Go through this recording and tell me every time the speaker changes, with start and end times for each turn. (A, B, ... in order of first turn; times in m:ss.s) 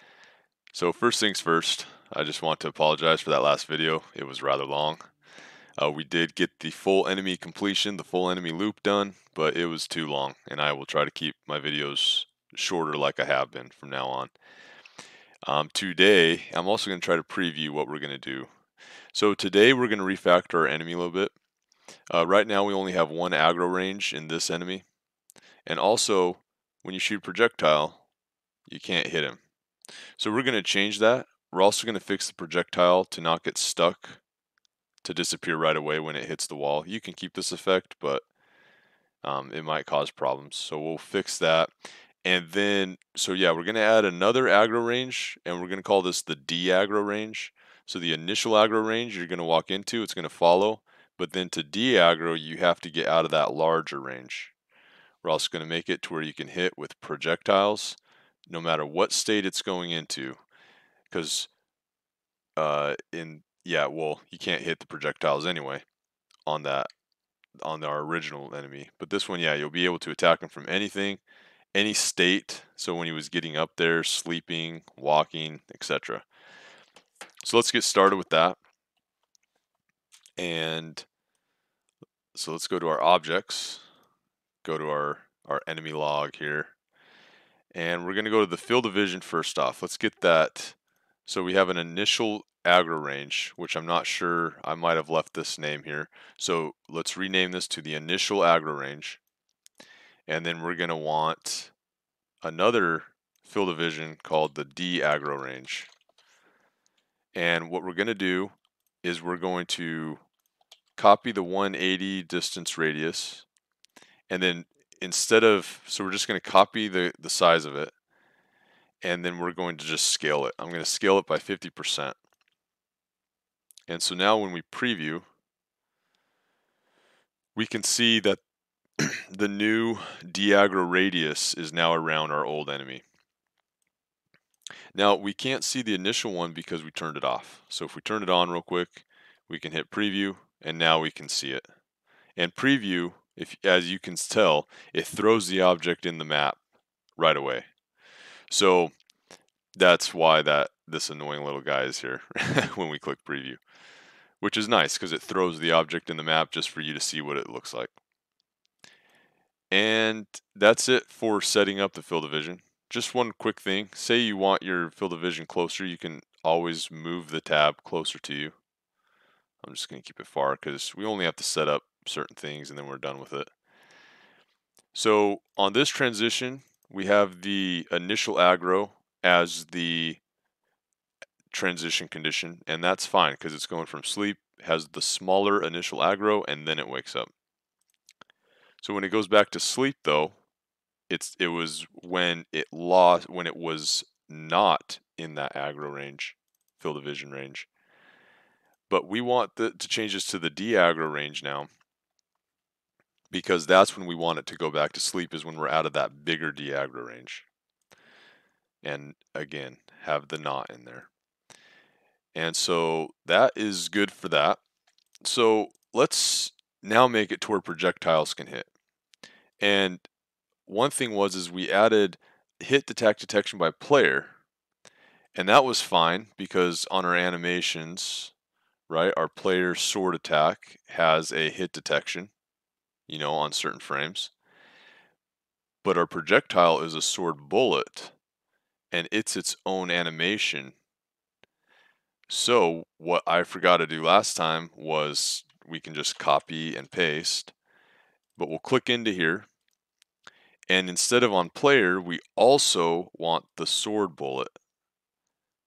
0:00.7-0:05.0 A
0:05.8-0:14.3 A
0:15.4-0:18.5 A
0:19.1-0:21.3 A
0:22.1-0:24.8 A
0:25.7-0:28.0 A
0:28.7-0:29.4 A
0:30.2-0:34.2 A
0:35.0-0:38.2 A
0:39.2-0:41.7 A
0:42.2-0:54.5 A
0:55.2-1:00.4 A
1:01.1-1:01.5 A
1:02.6-1:05.8 A
1:06.5-1:06.9 A
1:07.6-1:11.2 A
1:11.8-1:16.2 A
1:17.4-1:18.6 A
1:20.4-1:21.1 A
1:22.3-1:23.8 A
1:24.6-1:26.7 A
1:27.7-1:39.2 A
1:40.3-1:41.7 A
1:42.4-1:45.9 A
1:47.4-1:50.2 A
1:51.0-1:53.5 A
1:54.3-1:57.9 A
1:59.0-2:02.2 A
2:03.9-2:05.3 A
2:07.6-2:08.4 A
2:09.0-2:13.0 A
2:15.0-2:21.6 A
2:22.4-2:26.6 A
2:27.2-2:27.7 A
2:28.5-2:28.9 A
2:29.8-2:33.6 A
2:34.4-2:37.9 A
2:39.7-2:48.6 A
2:49.6-2:53.5 A
2:54.9-3:00.2 A
3:01.5-3:07.3 A
3:08.8-3:10.4 A
3:11.1-3:17.7 A
3:18.9-3:21.7 A
3:23.3-3:27.5 A
3:28.8-3:31.1 A
3:32.3-3:34.6 A
3:35.2-3:38.7 A
3:39.6-3:40.1 A
3:40.7-3:44.3 A
3:45.4-3:48.3 A
3:48.9-3:52.3 A
3:53.1-3:54.3 A
3:55.8-3:58.1 A
3:58.9-4:00.8 A
4:02.3-4:07.5 A
4:08.4-4:09.5 A
4:10.7-4:14.5 A